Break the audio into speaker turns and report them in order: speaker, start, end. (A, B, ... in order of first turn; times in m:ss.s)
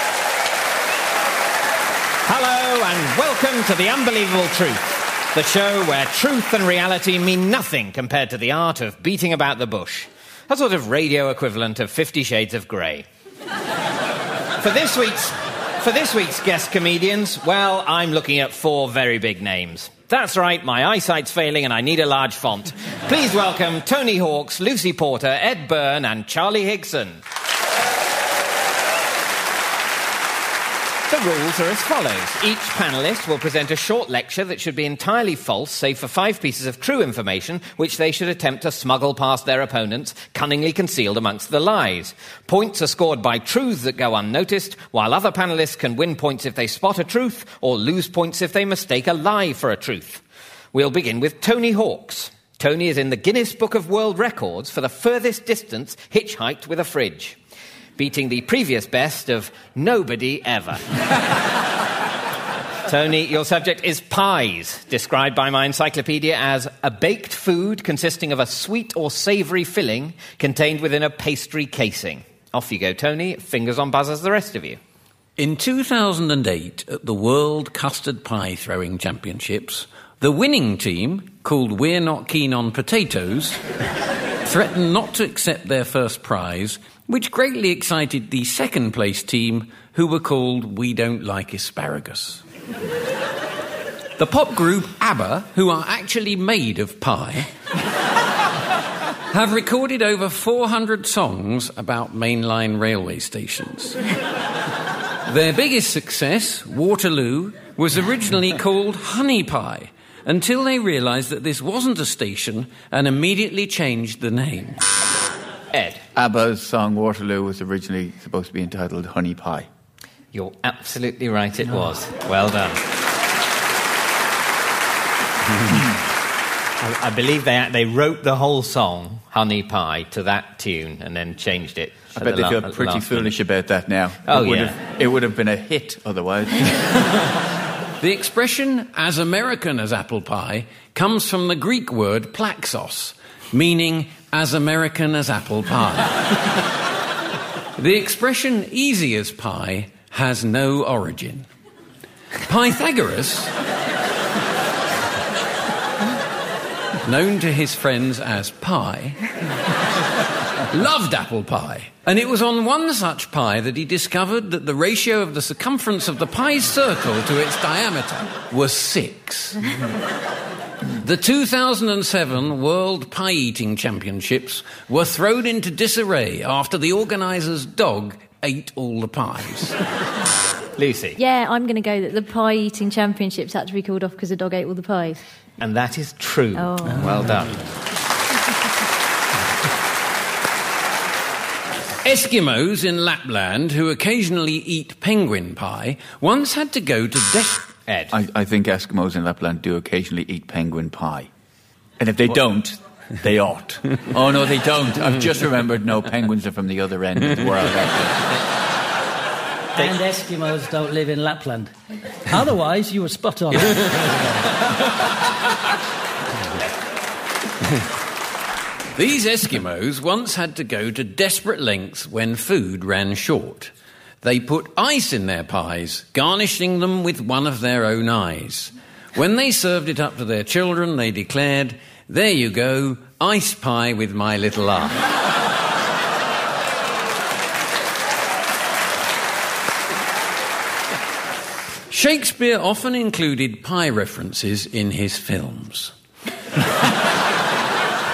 0:02.2-0:13.0 A
0:14.6-0:27.2 A
0:31.1-0:50.2 A
0:50.7-0:57.4 A
0:58.0-1:00.9 A
1:02.8-1:14.8 A
1:15.4-1:23.6 B
1:24.4-1:32.4 B
1:34.2-1:37.5 B
1:39.3-1:44.0 B
1:45.2-1:54.8 B
1:55.7-1:56.0 A
1:56.1-1:59.7 C
2:00.3-2:02.8 A
2:06.8-2:13.3 A
2:12.2-2:17.0 C
2:14.2-2:14.8 A
2:18.0-2:26.4 B
2:27.8-2:31.5 B
2:32.5-2:33.5 B
2:37.0-2:39.2 B
2:40.7-2:49.7 B
2:51.0-2:59.8 B
3:00.8-3:01.2 A
3:01.2-3:05.2 D
3:05.6-3:07.6 A
3:06.5-3:07.2 D
3:12.0-3:17.7 B
3:17.9-3:18.1 A
3:18.1-3:21.3 C
3:22.0-3:28.3 C
3:29.7-3:31.7 E
3:32.3-3:34.0 E
3:38.9-3:55.0 B
4:01.9-4:05.9 B